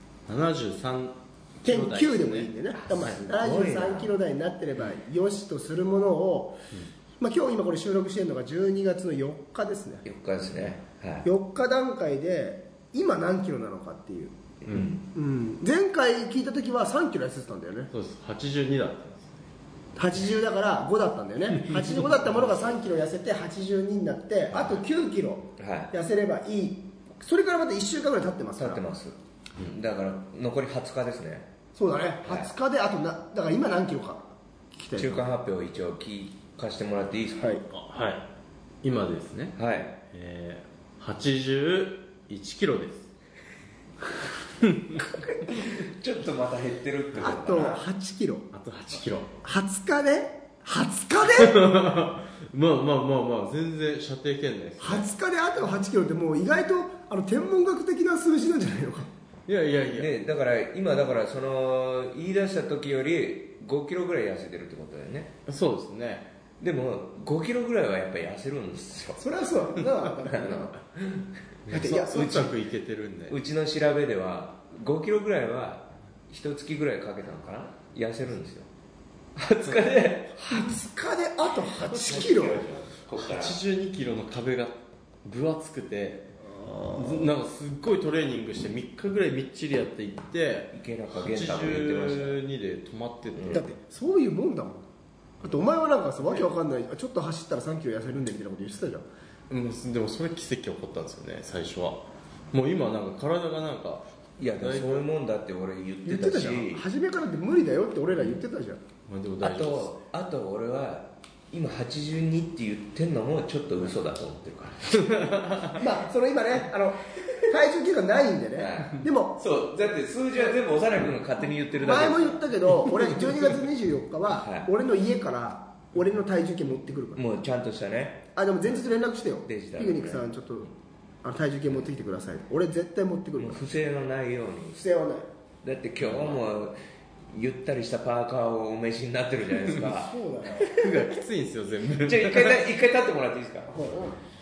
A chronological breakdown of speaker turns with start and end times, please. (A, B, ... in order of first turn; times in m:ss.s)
0:00.3-0:02.5 A
0:01.6-0:06.6 B
0:02.8-0:04.1 C
0:07.2-0:10.0 B
0:10.0-0:11.3 C
0:11.2-0:14.4 B
0:14.6-0:15.0 C
0:15.1-0:17.9 B
0:17.9-0:19.4 A
0:20.0-0:28.8 B
0:25.6-0:25.9 C
0:28.6-0:31.5 C
0:31.8-0:35.3 B
0:32.2-0:32.5 C
0:34.9-0:37.6 C
0:37.4-0:37.6 B
0:37.7-0:38.2 A
0:38.8-0:39.6 A
0:39.6-0:39.9 C
0:40.1-0:43.1 A
0:44.6-0:45.0 A
0:45.0-0:47.8 C
0:47.2-0:48.5 B
0:48.5-0:49.4 A
0:49.4-0:51.7 B
0:51.3-0:55.1 A
0:54.8-0:59.1 B
0:59.5-1:00.1 A
0:59.9-1:05.3 C
1:05.4-1:06.3 A
1:06.6-1:09.3 C
1:09.2-1:10.8 B
1:10.3-1:12.5 C
1:11.7-1:13.3 A
1:11.7-1:12.5 B
1:13.3-1:18.7 C
1:19.4-1:20.4 C
1:20.4-1:22.6 B
1:21.8-1:23.6 C
1:23.2-1:33.7 A
1:26.6-1:27.2 B
1:30.7-1:32.4 C
1:33.3-1:33.6 C
1:33.5-1:34.9 B
1:35.4-1:39.1 B
1:39.5-1:45.1 A
1:44.4-1:46.8 C
1:46.1-1:48.8 B
1:49.1-1:50.0 A
1:49.4-1:55.6 C
1:55.1-1:55.8 A
1:55.8-1:59.4 B
1:58.6-2:02.4 C
2:01.8-2:07.2 B
2:04.3-2:04.7 C
2:07.2-2:08.2 C
2:08.3-2:10.7 B
2:09.4-2:10.2 C
2:11.2-2:13.6 B
2:13.4-2:14.8 C
2:14.7-2:15.3 B
2:15.6-2:16.8 C
2:16.0-2:16.4 A
2:17.3-2:20.9 C
2:19.8-2:20.7 B
2:20.7-2:22.6 A
2:22.0-2:23.7 C
2:23.7-2:24.2 B